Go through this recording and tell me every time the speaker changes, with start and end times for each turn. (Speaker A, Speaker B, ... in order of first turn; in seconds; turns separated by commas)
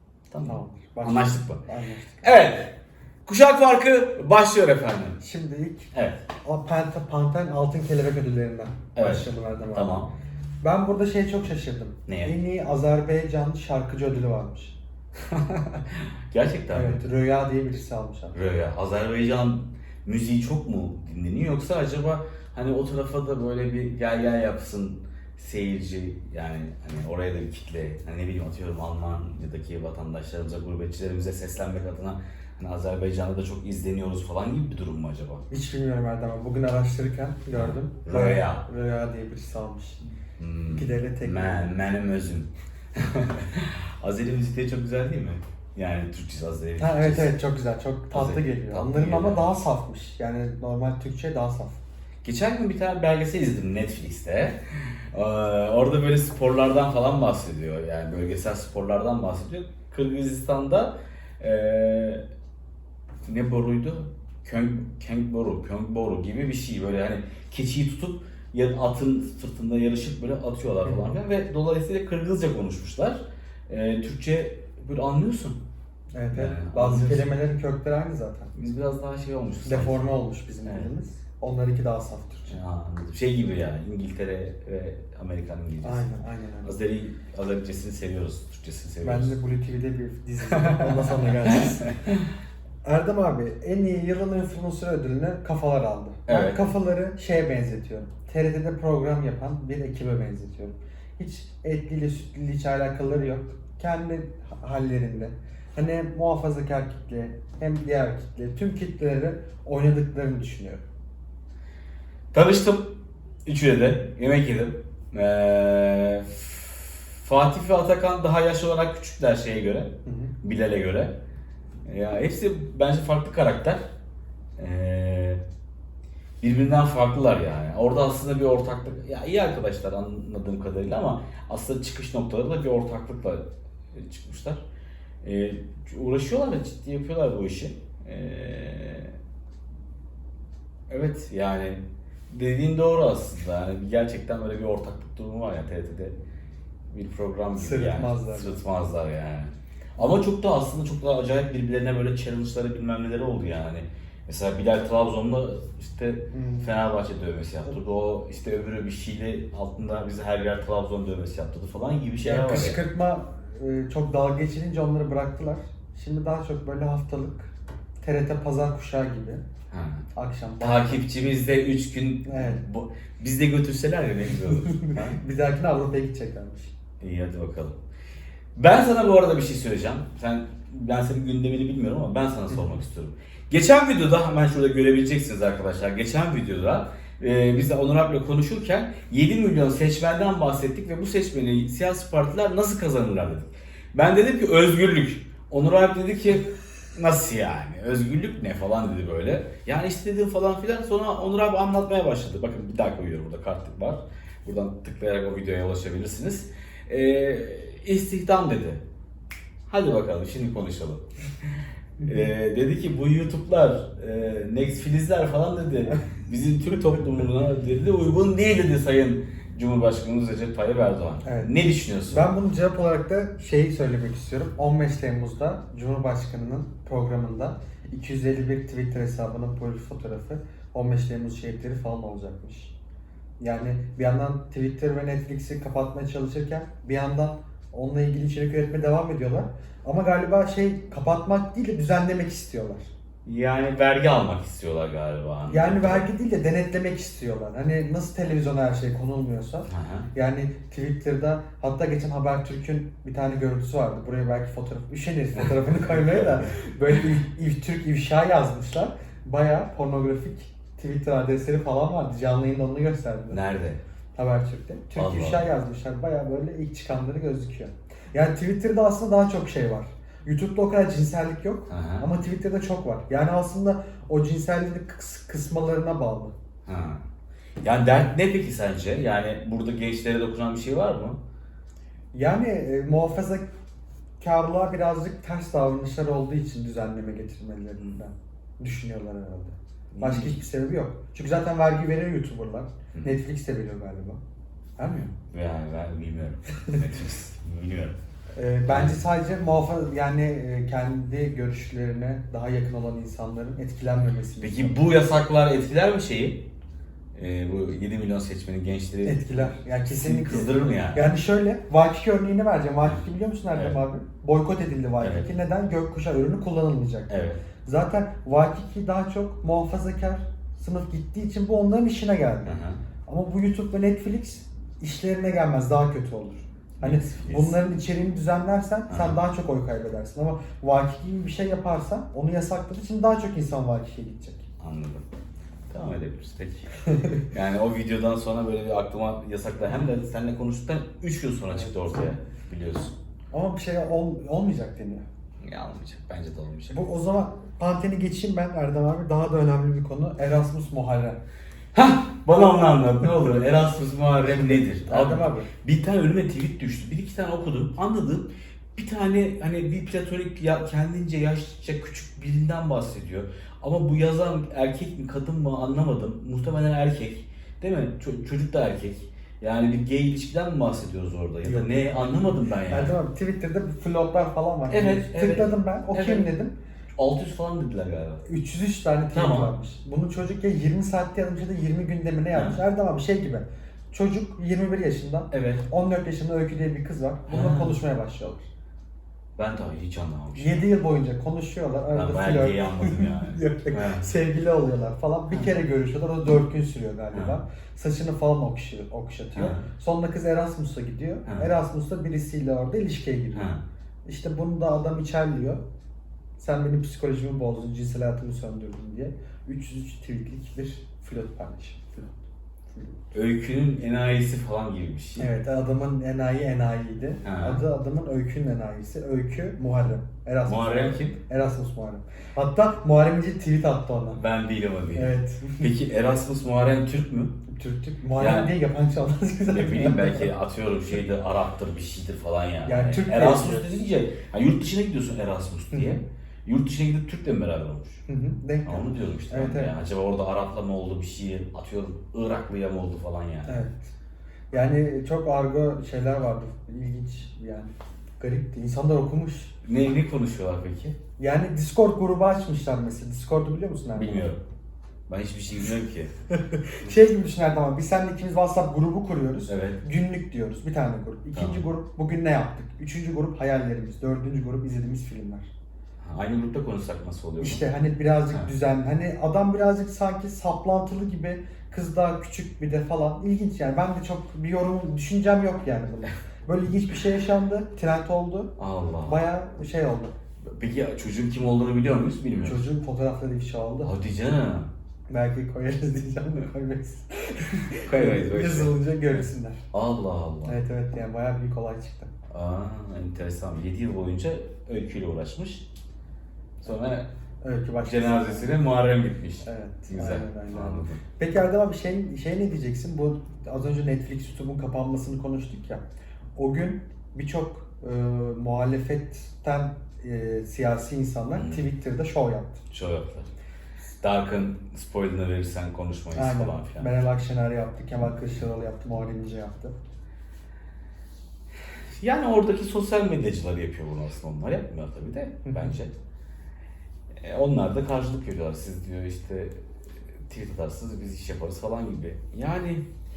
Speaker A: 0.3-1.6, Speaker B: 0.4-2.3, Speaker A: 2.2-2.7, Speaker A: 3.2-5.2, Speaker B: 5.2-5.9, Speaker A: 5.9-6.2, Speaker B: 6.4-10.1, Speaker A: 8.9-10.1, Speaker B: 10.6-14.8, Speaker A: 12.1-12.3, Speaker A: 15.2-17.0, Speaker B: 16.7-18.3, Speaker A: 18.3-35.4, Speaker B: 35.5-40.0, Speaker A: 37.5-38.6, Speaker A: 40.4-47.3, Speaker B: 40.7-41.7, Speaker B: 46.8-51.8, Speaker A: 48.1-49.5, Speaker A: 52.2-62.2, Speaker A: 63.2-75.6, Speaker B: 76.1-78.7, Speaker A: 76.3-77.5, Speaker A: 78.5-80.1, Speaker B: 79.6-82.6, Speaker A: 80.6-80.9, Speaker A: 82.5-89.3, Speaker B: 85.8-86.8, Speaker B: 89.0-91.9, Speaker A: 90.5-91.9, Speaker B: 92.8-110.8, Speaker A: 96.3-96.6, Speaker A: 112.3-112.9, Speaker A: 113.5-121.2, Speaker B: 120.0-120.3, Speaker A: 121.8-123.9, Speaker A: 124.6-125.4, Speaker A: 126.4-134.6, Speaker A: 135.2-139.2, Speaker A: 140.9-146.1, Speaker A: 146.9-162.8, Speaker B: 147.6-148.6, Speaker B: 156.3-156.7, Speaker B: 162.2-169.4, Speaker A: 169.7-170.1, Speaker B: 170.1-171.1, Speaker A: 170.6-175.2, Speaker B: 172.2-172.6, Speaker B: 174.4-176.7, Speaker A: 177.0-177.8, Speaker A: 178.5-208.8, Speaker A: 209.7-211.0, Speaker A: 212.0-222.3, Speaker B: 221.2-221.5, Speaker B: 222.1-232.7, Speaker B: 233.4-242.9, Speaker A: 243.2-246.1, Speaker B: 245.5-263.4, Speaker A: 249.7-250.1, Speaker A: 255.4-256.5, Speaker A: 263.3-263.8, Speaker B: 264.1-276.3, Speaker A: 264.9-265.5, Speaker A: 271.7-272.1, Speaker A: 276.6-277.0, Speaker A: 277.6-281.2, Speaker B: 282.1-283.5, Speaker B: 284.2-294.2, Speaker A: 289.9-290.4, Speaker A: 292.9-293.2, Speaker B: 294.8-295.1, Speaker A: 295.1-298.0, Speaker B: 298.4-304.8, Speaker A: 298.7-299.0, Speaker A: 304.4-306.4, Speaker A: 307.1-311.1, Speaker B: 309.0-317.1, Speaker A: 315.0-315.3, Speaker A: 317.1-317.4, Speaker B: 317.6-334.4, Speaker A: 322.4-322.8, Speaker A: 326.8-327.6, Speaker A: 328.9-329.2, Speaker A: 334.6-335.0, Speaker A: 335.7-342.9, Speaker B: 336.9-337.2, Speaker B: 341.5-342.0, Speaker B: 343.3-345.0, Speaker A: 345.4-346.9, Speaker B: 346.7-351.2, Speaker A: 351.7-373.0, Speaker B: 354.6-355.5, Speaker B: 371.4-372.1, Speaker B: 372.7-376.6, Speaker A: 374.7-376.3, Speaker A: 376.9-378.2, Speaker B: 378.2-388.5, Speaker A: 379.1-379.5, Speaker A: 382.3-382.6, Speaker A: 385.3-385.6, Speaker A: 387.3-387.8, Speaker A: 389.4-390.6, Speaker B: 390.4-403.5, Speaker A: 391.9-394.1, Speaker A: 399.3-399.7, Speaker A: 403.3-403.6, Speaker B: 404.0-405.6, Speaker B: 406.4-413.0, Speaker A: 413.1-415.3, Speaker B: 415.2-424.2, Speaker A: 417.2-417.6, Speaker A: 420.4-421.2, Speaker A: 424.1-427.4, Speaker B: 424.9-425.7, Speaker B: 427.5-430.3, Speaker A: 428.2-428.5, Speaker A: 429.5-438.0, Speaker B: 432.6-433.8, Speaker B: 435.7-436.0, Speaker B: 438.1-439.8, Speaker A: 438.6-443.6, Speaker B: 443.4-443.9, Speaker B: 444.5-449.5, Speaker A: 449.6-451.0, Speaker B: 451.2-454.3, Speaker A: 453.9-454.4, Speaker A: 455.1-456.1, Speaker B: 456.7-465.5, Speaker A: 459.5-459.8, Speaker A: 461.3-461.6, Speaker A: 466.0-467.6, Speaker B: 467.4-480.1, Speaker A: 478.6-479.2, Speaker A: 480.4-482.6, Speaker B: 482.4-483.9, Speaker A: 483.8-484.7, Speaker B: 485.1-489.6, Speaker A: 487.8-490.6, Speaker B: 490.4-492.1, Speaker A: 492.3-495.6, Speaker A: 496.6-497.1, Speaker B: 497.4-498.6, Speaker A: 497.8-501.0, Speaker B: 499.4-505.8, Speaker B: 506.4-512.6, Speaker A: 511.3-511.7, Speaker A: 512.7-513.3, Speaker A: 514.0-516.9, Speaker B: 516.1-519.8, Speaker A: 522.0-525.9, Speaker B: 525.5-525.7, Speaker A: 527.2-529.6, Speaker A: 530.3-532.8